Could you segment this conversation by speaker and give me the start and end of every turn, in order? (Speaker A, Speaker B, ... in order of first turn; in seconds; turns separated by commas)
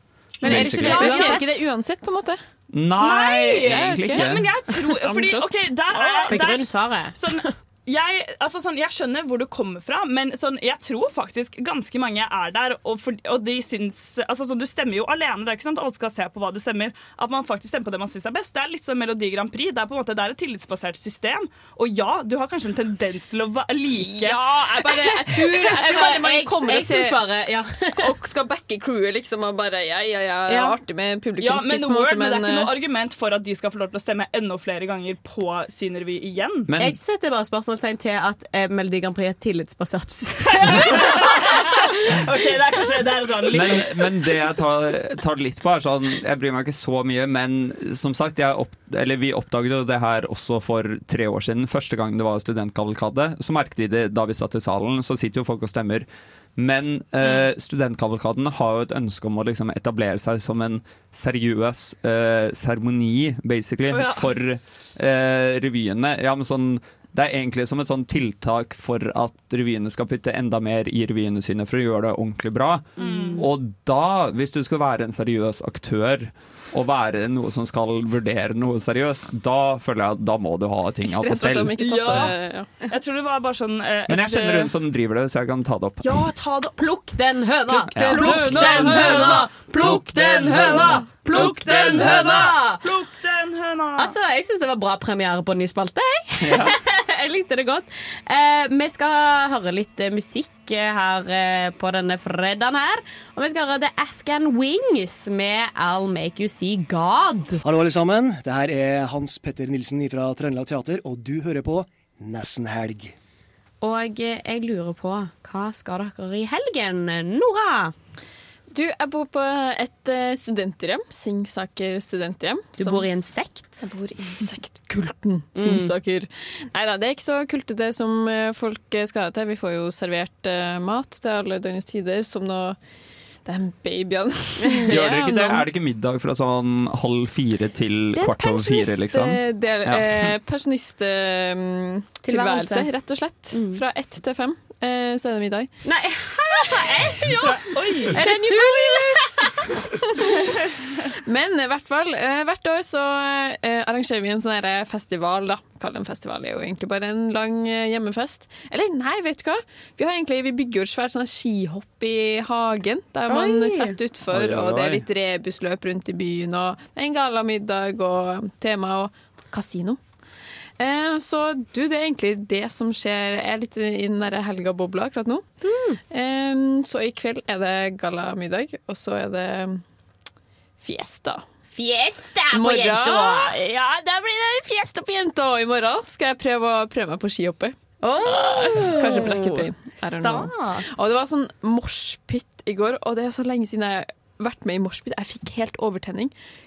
Speaker A: 0.4-1.4, Speaker B: 0.4-1.6, Speaker C: 0.4-2.4, Speaker A: 2.7-4.6, Speaker D: 3.0-24.5, Speaker C: 3.6-4.3, Speaker C: 4.9-6.6, Speaker B: 6.3-7.5, Speaker C: 23.9-27.2, Speaker B: 24.9-28.1, Speaker C: 28.0-32.7, Speaker B: 30.5-30.8, Speaker D: 31.4-36.7, Speaker A: 36.7-37.0, Speaker B: 36.8-41.5, Speaker D: 40.5-44.1, Speaker A: 43.5-56.1, Speaker A: 56.6-82.3, Speaker D: 57.2-57.5, Speaker D: 63.9-64.3, Speaker B: 73.0-73.4, Speaker D: 73.0-73.5, Speaker C: 81.0-82.7, Speaker D: 81.8-84.7, Speaker A: 84.1-86.2, Speaker D: 86.0-86.8, Speaker B: 86.8-92.9, Speaker D: 87.7-94.2, Speaker A: 87.9-92.5, Speaker B: 94.0-107.6, Speaker A: 96.4-96.8, Speaker E: 107.6-113.1, Speaker B: 113.8-117.9, Speaker C: 118.7-123.1, Speaker B: 122.8-123.9, Speaker C: 123.8-132.8, Speaker B: 125.5-125.9, Speaker C: 133.4-135.7, Speaker A: 134.9-140.3, Speaker C: 138.1-145.7, Speaker B: 142.2-142.9, Speaker B: 143.5-143.8, Speaker B: 145.8-150.3, Speaker D: 147.3-148.3, Speaker C: 148.1-149.5, Speaker C: 151.3-170.0, Speaker B: 163.3-164.0, Speaker A: 164.3-165.1, Speaker C: 170.8-175.4, Speaker B: 175.6-176.0, Speaker C: 176.1-179.8, Speaker C: 180.8-181.4, Speaker B: 181.7-183.6, Speaker C: 182.5-196.3, Speaker B: 188.0-191.0